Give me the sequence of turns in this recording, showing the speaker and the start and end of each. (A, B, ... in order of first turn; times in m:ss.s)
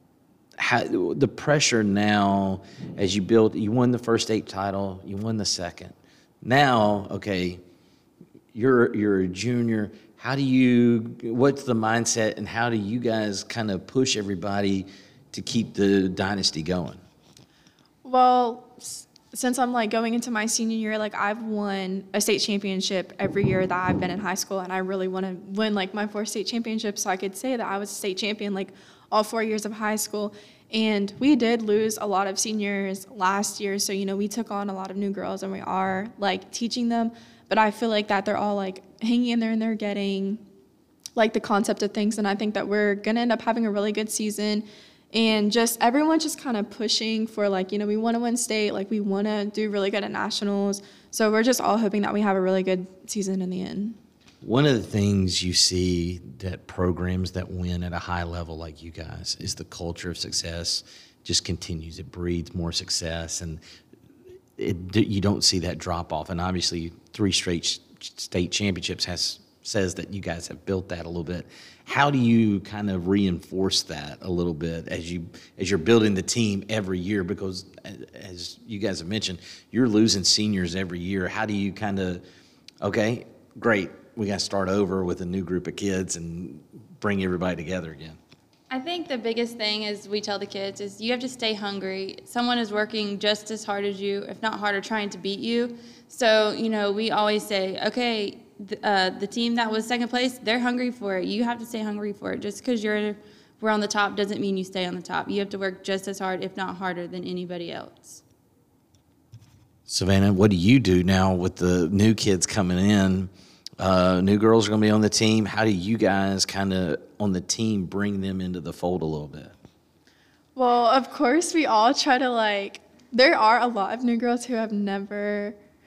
0:00.6-0:07.6 A
0:08.5-0:17.0 A
0:18.0-0:40.4 B
0:41.2-0:54.0 B
0:54.4-1:03.6 A
1:04.6-1:22.2 A
1:22.8-1:28.2 A
1:28.7-1:48.2 C
1:49.9-1:59.5 A
2:00.6-2:05.6 B